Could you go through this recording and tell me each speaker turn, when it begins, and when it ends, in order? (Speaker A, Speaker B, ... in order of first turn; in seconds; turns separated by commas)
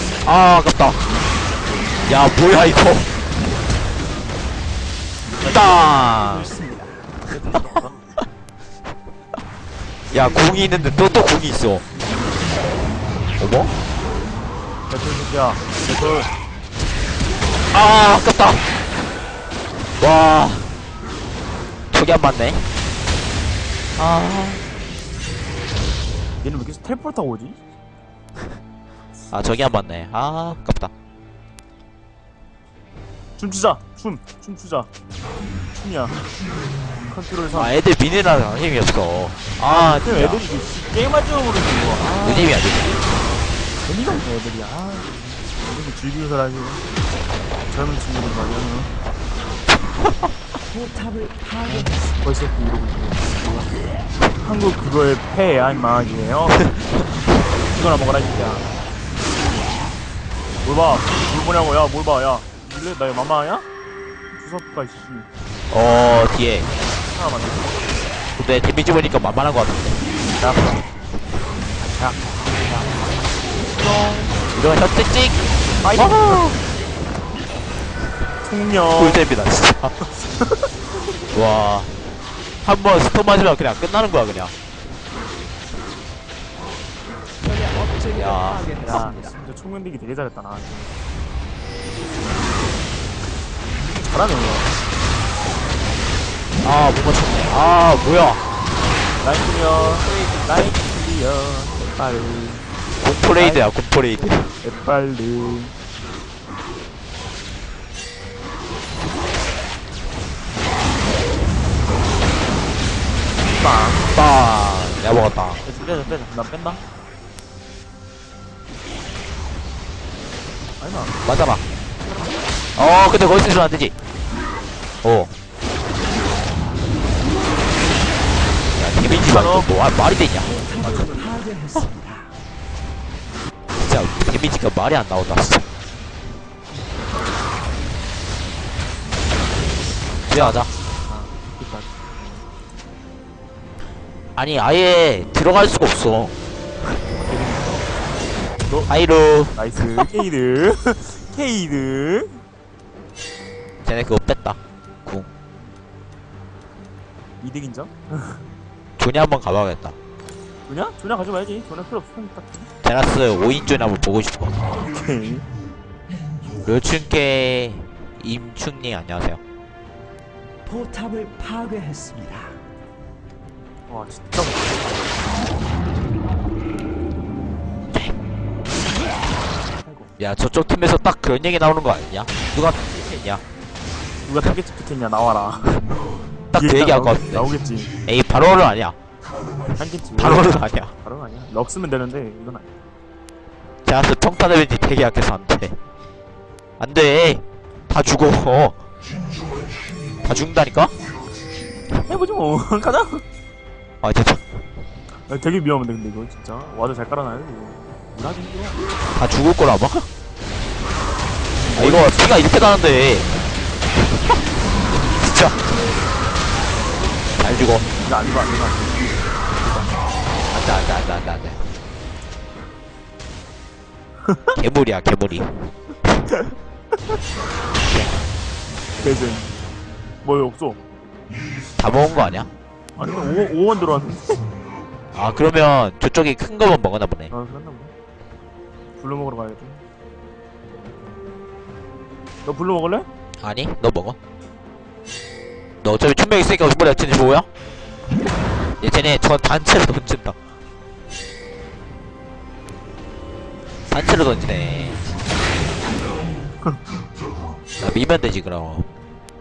Speaker A: 0.2-1.0, Speaker A: 2.0-3.1, Speaker B: 5.4-5.9, Speaker A: 5.5-6.5, Speaker C: 5.7-7.2, Speaker B: 7.3-7.9, Speaker A: 10.1-11.8, Speaker A: 13.4-13.7, Speaker B: 14.9-16.3, Speaker A: 17.7-18.7, Speaker A: 20.0-20.7, Speaker A: 21.9-22.7, Speaker A: 24.0-24.6, Speaker B: 26.4-27.6, Speaker A: 29.3-30.9, Speaker B: 33.4-34.9, Speaker B: 35.7-36.2, Speaker B: 37.1-37.7, Speaker A: 37.5-40.4, Speaker B: 39.7-42.5, Speaker A: 42.1-43.0, Speaker B: 43.8-46.8, Speaker B: 47.7-48.9, Speaker C: 50.7-52.1, Speaker B: 51.7-53.7, Speaker B: 54.4-56.6, Speaker B: 57.7-58.7, Speaker B: 60.6-63.6, Speaker B: 64.3-65.3, Speaker A: 65.7-66.7, Speaker B: 67.0-67.8, Speaker A: 68.4-70.0, Speaker B: 70.4-70.8, Speaker B: 71.8-74.4, Speaker A: 74.5-75.4, Speaker B: 75.8-76.5, Speaker A: 75.9-76.6, Speaker B: 78.4-79.2, Speaker A: 79.0-79.9, Speaker B: 80.1-80.7, Speaker A: 81.3-82.0, Speaker A: 82.6-84.5, Speaker C: 87.4-89.4, Speaker A: 88.1-89.0, Speaker B: 88.8-90.9, Speaker B: 94.0-94.7, Speaker A: 96.6-98.4, Speaker B: 99.2-102.7, Speaker A: 103.0-104.4, Speaker B: 103.3-105.7, Speaker B: 113.5-114.1, Speaker A: 114.1-115.6, Speaker B: 115.6-116.8, Speaker B: 120.8-121.2, Speaker A: 121.2-121.6, Speaker B: 122.0-122.5, Speaker A: 122.8-123.9, Speaker A: 125.0-125.3, Speaker A: 128.7-130.5, Speaker B: 129.2-129.7, Speaker C: 130.4-132.3, Speaker B: 130.8-131.3, Speaker A: 133.8-135.6, Speaker B: 140.2-142.4, Speaker A: 140.3-140.7, Speaker A: 144.3-146.3, Speaker B: 147.2-147.9, Speaker A: 148.9-150.1, Speaker B: 149.5-152.4, Speaker A: 153.8-155.3, Speaker B: 157.4-158.5, Speaker A: 159.0-159.9, Speaker B: 160.7-162.7, Speaker A: 162.8-164.7, Speaker B: 164.8-165.5, Speaker A: 166.6-169.4, Speaker C: 170.6-172.6, Speaker B: 173.9-175.0, Speaker B: 179.8-180.1, Speaker A: 180.2-183.4, Speaker B: 184.2-185.9, Speaker A: 186.5-187.5, Speaker B: 186.5-187.9, Speaker A: 188.1-189.0, Speaker B: 189.8-192.7, Speaker A: 190.2-190.9, Speaker A: 193.8-195.8, Speaker A: 196.8-198.8, Speaker A: 200.2-200.9, Speaker B: 202.1-203.2, Speaker A: 204.0-204.6, Speaker B: 205.3-208.8, Speaker A: 209.1-210.1, Speaker B: 211.5-212.3, Speaker A: 211.7-213.3, Speaker A: 213.9-214.4, Speaker A: 215.0-215.6, Speaker C: 215.5-215.8, Speaker A: 217.4-217.8, Speaker B: 218.0-219.1, Speaker A: 220.5-221.7, Speaker B: 224.3-224.6, Speaker A: 224.6-225.6, Speaker A: 227.9-228.2, Speaker B: 229.0-229.5, Speaker B: 230.2-230.8, Speaker A: 231.8-232.5, Speaker B: 233.0-234.4, Speaker A: 235.1-237.3, Speaker B: 237.3-237.9, Speaker B: 239.0-239.8, Speaker B: 242.4-243.1, Speaker A: 243.4-244.2, Speaker A: 245.8-247.5, Speaker A: 248.8-250.4, Speaker A: 253.8-255.0, Speaker A: 257.8-258.9